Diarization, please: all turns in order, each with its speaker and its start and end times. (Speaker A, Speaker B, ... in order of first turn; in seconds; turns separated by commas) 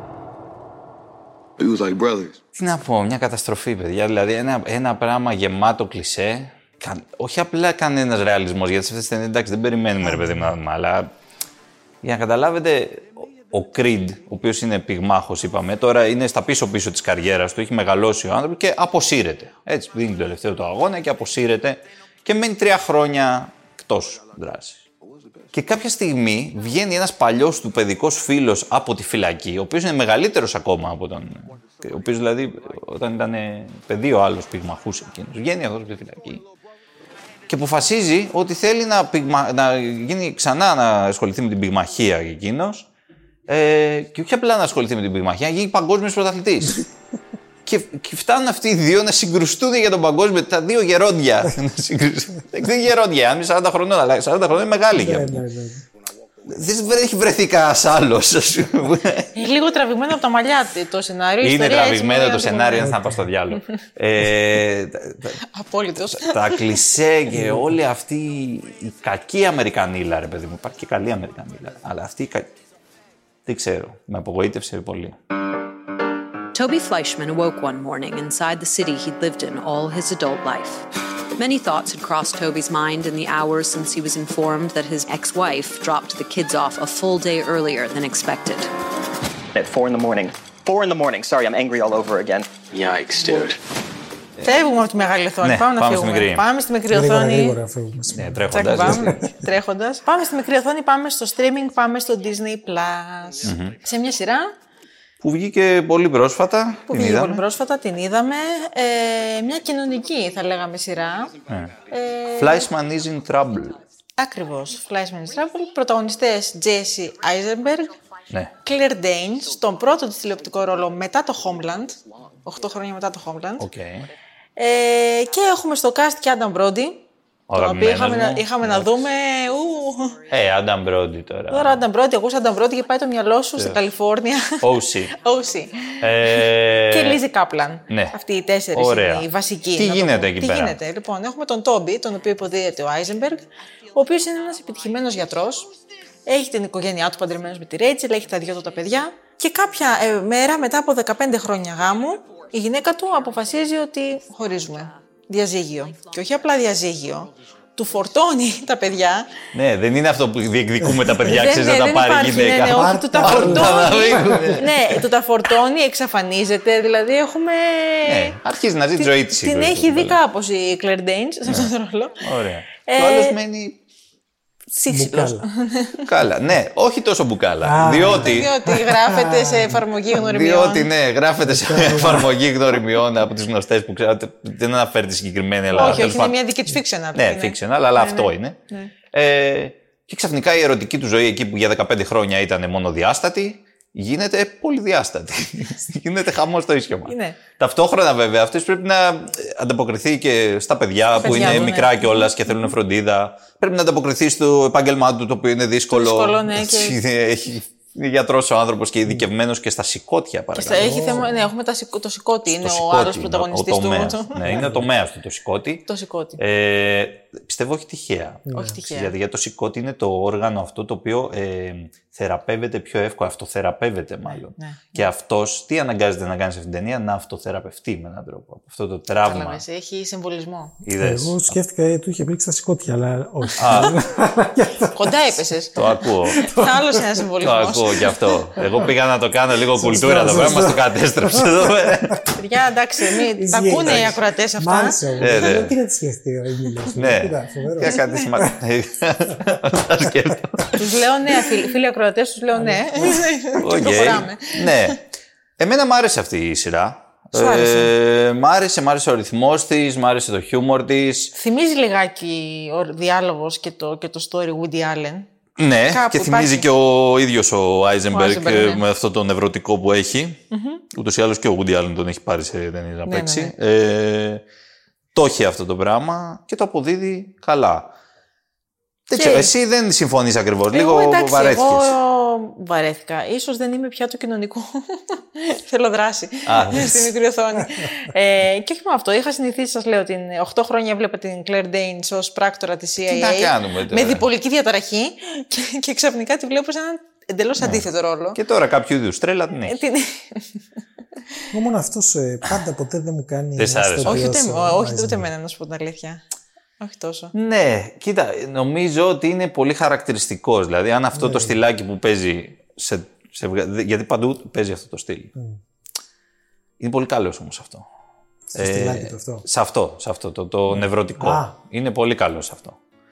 Speaker A: 2.6-11.1, Speaker B: 10.1-10.5, Speaker A: 12.0-24.9, Speaker A: 25.5-36.4, Speaker A: 37.5-42.9, Speaker A: 43.5-46.9, Speaker A: 47.7-55.4, Speaker B: 54.9-55.8, Speaker A: 56.5-59.4, Speaker C: 59.4-63.0, Speaker A: 61.4-65.4, Speaker B: 62.8-63.3, Speaker C: 65.5-66.9, Speaker A: 66.1-72.5, Speaker B: 67.3-67.8, Speaker A: 73.5-75.2, Speaker D: 76.5-80.9, Speaker D: 81.4-88.7, Speaker E: 89.5-92.5, Speaker C: 94.4-97.6, Speaker A: 95.4-96.5, Speaker B: 96.9-99.3, Speaker A: 98.1-99.3, Speaker C: 98.5-104.5, Speaker A: 103.4-103.8, Speaker A: 105.2-107.4, Speaker C: 106.9-112.7, Speaker A: 111.5-111.7, Speaker A: 112.4-113.8, Speaker C: 114.2-118.0, Speaker C: 118.6-123.7, Speaker A: 123.6-124.1, Speaker C: 124.6-127.0, Speaker A: 127.5-128.9, Speaker C: 127.5-130.2, Speaker A: 130.3-131.8, Speaker C: 131.5-145.7, Speaker A: 134.6-135.1, Speaker A: 136.0-137.2, Speaker A: 137.9-138.2, Speaker A: 138.7-140.8, Speaker C: 146.3-159.3, Speaker A: 159.5-164.8, Speaker C: 161.3-168.4, Speaker B: 162.7-164.6, Speaker A: 168.1-170.2, Speaker C: 169.0-172.2, Speaker A: 172.2-173.8, Speaker C: 172.9-173.4, Speaker C: 174.8-176.0, Speaker B: 174.9-175.5, Speaker A: 176.0-178.5, Speaker B: 177.6-179.8, Speaker C: 178.1-180.9, Speaker A: 180.2-186.4, Speaker B: 181.4-182.4, Speaker C: 185.7-188.9, Speaker A: 187.2-188.6, Speaker A: 189.1-211.3, Speaker C: 197.1-197.4, Speaker C: 201.2-202.3, Speaker B: 201.3-201.7, Speaker C: 205.9-207.0, Speaker C: 210.6-214.7, Speaker B: 210.8-211.5, Speaker A: 212.5-215.8, Speaker B: 214.4-214.9, Speaker C: 215.9-216.4, Speaker A: 216.4-229.6, Speaker B: 218.5-218.7, Speaker C: 218.5-219.2, Speaker C: 224.3-225.1, Speaker C: 229.2-230.7, Speaker A: 230.9-231.6, Speaker B: 231.0-235.1, Speaker A: 233.6-234.0, Speaker C: 234.9-235.7, Speaker A: 235.8-236.5, Speaker B: 236.3-237.0, Speaker C: 236.5-238.1, Speaker A: 237.4-242.3, Speaker B: 238.6-238.9, Speaker B: 239.7-242.2, Speaker C: 242.3-245.0, Speaker B: 243.3-248.6, Speaker A: 245.2-245.8, Speaker A: 247.0-250.8, Speaker C: 250.8-255.0, Speaker B: 252.6-253.2, Speaker A: 253.6-255.0, Speaker A: 255.6-261.3, Speaker C: 257.3-257.9, Speaker C: 261.4-265.3, Speaker A: 265.6-270.4, Speaker C: 265.9-266.7, Speaker C: 268.1-268.8, Speaker C: 270.5-270.8, Speaker A: 270.9-274.4, Speaker C: 273.1-273.5, Speaker A: 275.1-277.9, Speaker A: 279.1-281.9, Speaker C: 279.1-279.5, Speaker C: 280.7-298.4, Speaker A: 286.5-287.1, Speaker A: 293.1-294.2, Speaker A: 297.6-299.8, Speaker C: 299.6-300.6, Speaker B: 301.5-305.3, Speaker A: 303.6-304.3, Speaker C: 304.1-306.2, Speaker C: 306.8-307.3, Speaker A: 307.3-315.3, Speaker B: 311.1-311.6, Speaker A: 316.8-317.9, Speaker B: 318.5-319.4, Speaker A: 318.6-322.8, Speaker B: 320.7-321.6